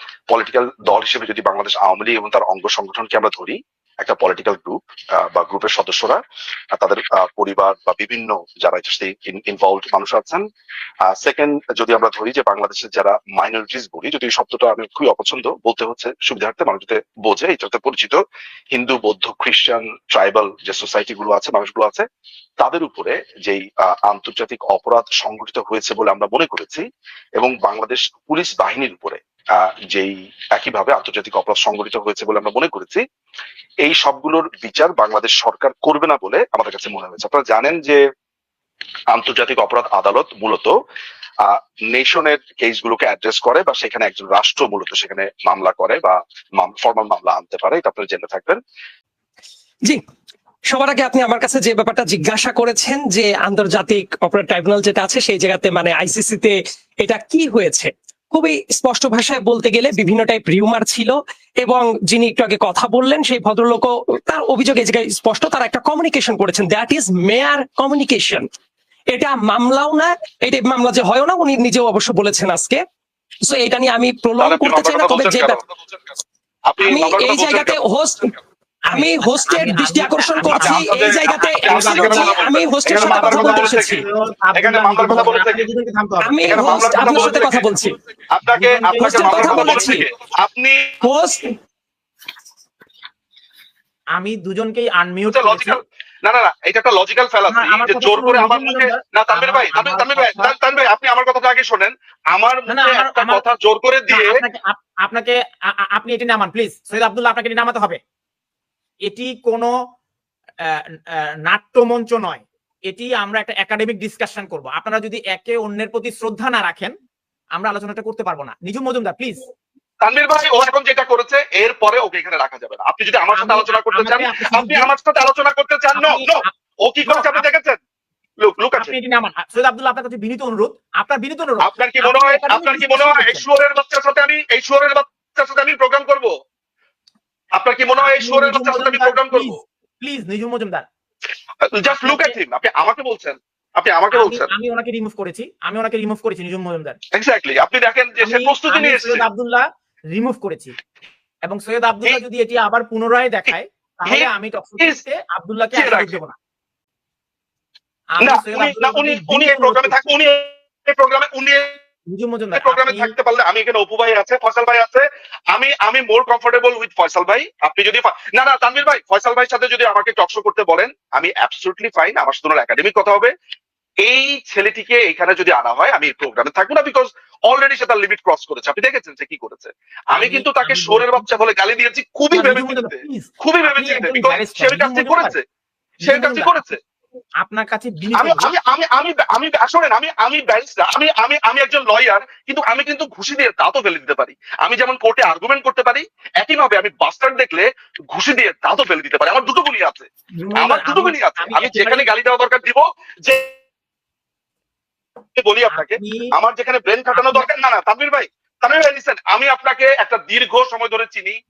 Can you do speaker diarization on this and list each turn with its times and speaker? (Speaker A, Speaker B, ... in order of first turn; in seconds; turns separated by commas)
Speaker A: 0.3-6.2, Speaker A: 6.7-10.4, Speaker A: 11.1-18.2, Speaker A: 18.7-22.1, Speaker A: 22.6-26.9, Speaker A: 27.4-33.0, Speaker A: 33.8-38.0, Speaker A: 39.1-40.7, Speaker A: 41.4-48.6, Speaker B: 50.7-68.5, Speaker B: 69.1-72.8, Speaker B: 73.5-75.6, Speaker A: 74.4-76.2, Speaker A: 76.7-77.8, Speaker B: 76.8-78.3, Speaker C: 78.9-80.9, Speaker B: 78.9-84.0, Speaker A: 80.5-84.0, Speaker C: 81.7-82.4, Speaker C: 83.0-87.5, Speaker A: 84.5-85.6, Speaker B: 85.1-85.4, Speaker B: 86.2-88.0, Speaker A: 86.4-87.7, Speaker A: 88.3-91.0, Speaker C: 88.5-90.0, Speaker B: 89.0-90.0, Speaker B: 91.0-91.6, Speaker C: 94.2-95.8, Speaker A: 95.3-104.4, Speaker C: 97.5-100.5, Speaker C: 102.7-103.4, Speaker C: 104.1-108.0, Speaker C: 109.1-109.7, Speaker C: 111.4-116.9, Speaker C: 117.6-119.4, Speaker A: 120.0-126.3, Speaker C: 123.3-124.9, Speaker C: 125.9-126.5, Speaker A: 126.8-127.8, Speaker C: 127.0-127.4, Speaker A: 128.4-128.9, Speaker C: 128.8-133.4, Speaker A: 131.6-136.3, Speaker A: 137.6-139.6, Speaker C: 138.0-140.8, Speaker A: 141.7-144.5, Speaker C: 141.8-142.4, Speaker C: 144.1-147.0, Speaker A: 147.1-149.3, Speaker C: 148.2-150.8, Speaker C: 151.4-156.4, Speaker A: 154.1-155.0, Speaker A: 155.7-156.2, Speaker C: 158.2-160.1, Speaker A: 158.2-161.8, Speaker C: 162.1-163.1, Speaker A: 162.5-173.3, Speaker A: 174.0-185.4, Speaker C: 180.1-181.2, Speaker C: 182.3-185.4, Speaker C: 186.0-186.6, Speaker A: 186.0-186.8, Speaker C: 187.4-188.5, Speaker A: 188.1-203.5, Speaker C: 200.4-202.1, Speaker A: 205.4-211.4, Speaker C: 205.7-206.3, Speaker C: 207.1-207.5